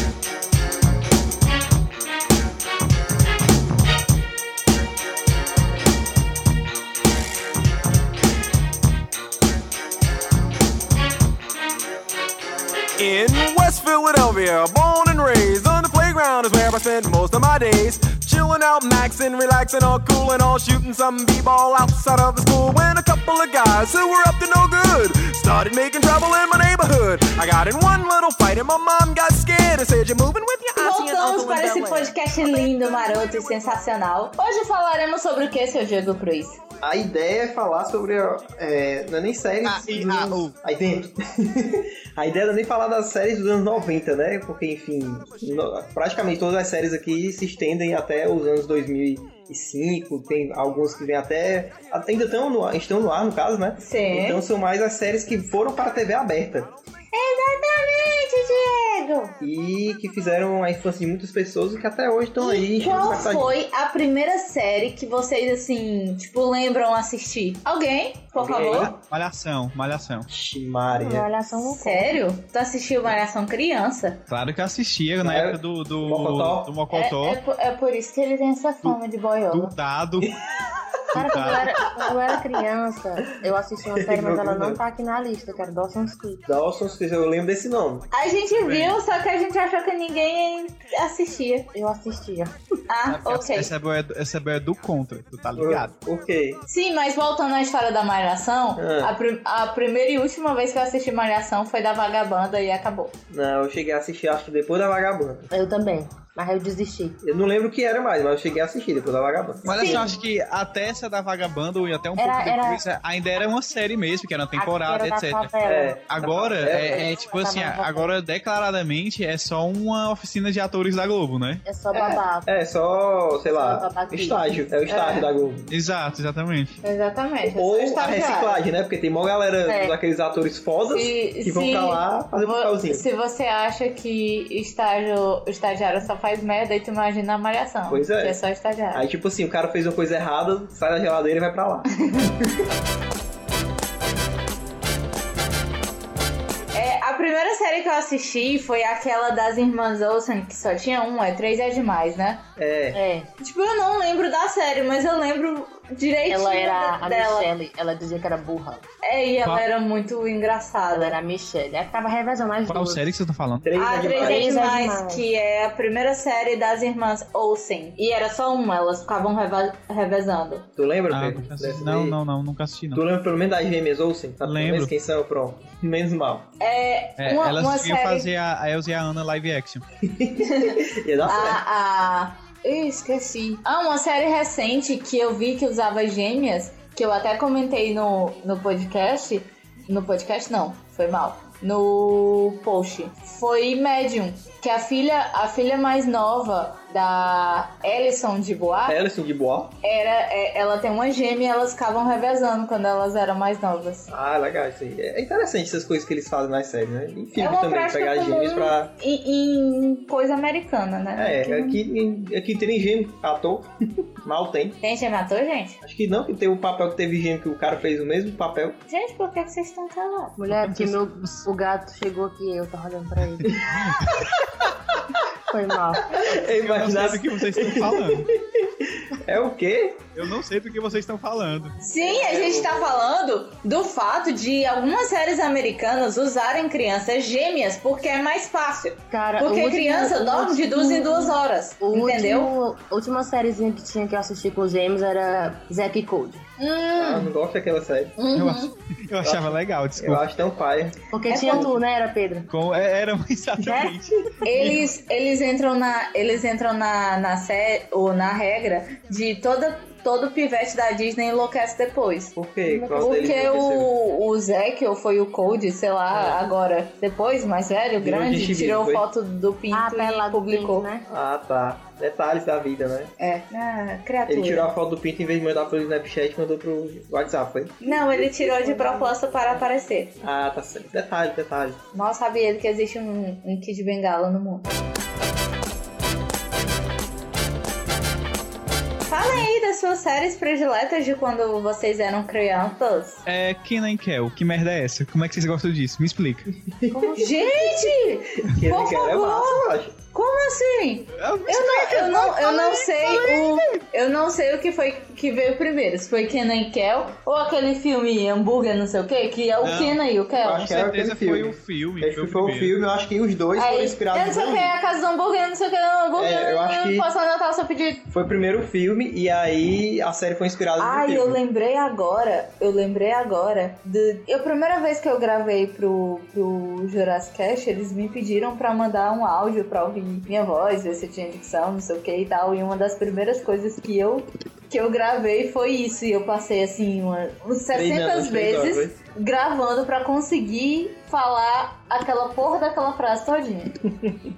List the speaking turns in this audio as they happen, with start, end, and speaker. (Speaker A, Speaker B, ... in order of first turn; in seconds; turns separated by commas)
Speaker A: 13.0-33.7, Speaker B: 30.8-36.6, Speaker C: 36.8-56.7, Speaker D: 39.6-40.5, Speaker B: 53.8-54.4, Speaker B: 57.1-59.4, Speaker C: 59.4-63.5, Speaker B: 62.4-68.9, Speaker C: 68.4-68.9, Speaker D: 68.6-70.3, Speaker C: 70.3-71.3, Speaker E: 71.0-72.2, Speaker B: 71.6-74.2, Speaker D: 74.3-77.4, Speaker C: 75.2-76.8, Speaker B: 76.9-79.7, Speaker D: 79.5-80.3, Speaker E: 81.1-86.4, Speaker D: 81.1-81.8, Speaker C: 83.9-84.8, Speaker C: 86.5-88.1, Speaker B: 88.1-91.7, Speaker D: 88.6-89.0, Speaker E: 91.7-92.5, Speaker B: 92.9-93.7, Speaker D: 93.1-95.9, Speaker C: 95.5-96.6, Speaker B: 96.7-103.1, Speaker C: 98.8-99.1, Speaker C: 103.3-105.5, Speaker E: 105.5-107.2, Speaker C: 107.2-110.1, Speaker D: 109.6-115.5, Speaker B: 109.8-110.0, Speaker E: 112.2-112.8, Speaker E: 114.5-116.0, Speaker C: 115.6-117.1, Speaker D: 116.1-121.6, Speaker E: 116.7-118.1, Speaker E: 121.6-122.5, Speaker C: 121.9-125.7, Speaker E: 123.5-124.6, Speaker B: 124.9-125.3, Speaker D: 125.7-126.8, Speaker B: 126.8-128.6, Speaker C: 127.5-133.0, Speaker E: 129.7-129.9, Speaker B: 130.9-139.0, Speaker C: 137.9-138.4, Speaker C: 138.9-142.7, Speaker B: 146.7-152.4, Speaker C: 152.6-153.0, Speaker E: 152.9-153.3, Speaker B: 153.4-157.5, Speaker E: 156.3-158.8, Speaker B: 159.0-161.2, Speaker E: 160.9-163.2, Speaker D: 162.7-163.7, Speaker C: 163.6-164.5, Speaker B: 163.8-170.7, Speaker E: 164.1-165.2, Speaker C: 170.8-172.2, Speaker D: 171.1-173.0, Speaker C: 172.9-176.5, Speaker D: 174.4-174.9, Speaker B: 176.6-178.3, Speaker D: 177.2-179.8, Speaker C: 180.0-181.6, Speaker B: 180.4-199.0, Speaker C: 198.8-199.8, Speaker B: 199.8-204.1, Speaker C: 204.1-208.9, Speaker B: 207.4-211.8, Speaker C: 211.2-213.7, Speaker C: 214.2-214.8, Speaker B: 214.8-215.8, Speaker C: 215.8-218.8, Speaker B: 218.9-220.3, Speaker E: 220.4-223.6, Speaker D: 220.5-221.0, Speaker C: 223.5-223.8, Speaker D: 223.8-224.2, Speaker E: 225.5-226.1, Speaker C: 226.1-230.1, Speaker D: 226.1-228.3, Speaker D: 230.2-231.8, Speaker B: 231.8-242.5, Speaker C: 232.0-233.0, Speaker E: 239.1-246.5, Speaker B: 246.6-247.3, Speaker C: 247.0-248.2, Speaker B: 248.2-248.7, Speaker D: 248.3-250.2, Speaker C: 249.2-251.0, Speaker E: 251.1-252.5, Speaker B: 251.3-251.7, Speaker D: 252.5-254.8, Speaker E: 253.6-254.0, Speaker B: 254.4-262.3, Speaker C: 262.3-263.9, Speaker E: 262.7-263.4, Speaker B: 263.0-270.9, Speaker C: 268.0-269.1, Speaker E: 269.7-271.1, Speaker C: 271.1-273.1, Speaker B: 273.2-274.7, Speaker C: 274.3-277.9, Speaker B: 277.8-280.1, Speaker E: 278.1-279.1, Speaker C: 280.2-281.8, Speaker B: 281.9-284.7, Speaker B: 289.1-293.2, Speaker D: 293.2-296.5, Speaker C: 296.7-297.2, Speaker E: 296.9-298.0, Speaker B: 297.2-310.7, Speaker C: 298.4-300.0, Speaker D: 301.2-303.5, Speaker D: 309.6-312.7, Speaker C: 310.4-314.7, Speaker B: 313.5-318.0, Speaker C: 316.1-317.1, Speaker C: 318.1-321.4, Speaker B: 320.8-343.7, Speaker C: 337.7-339.0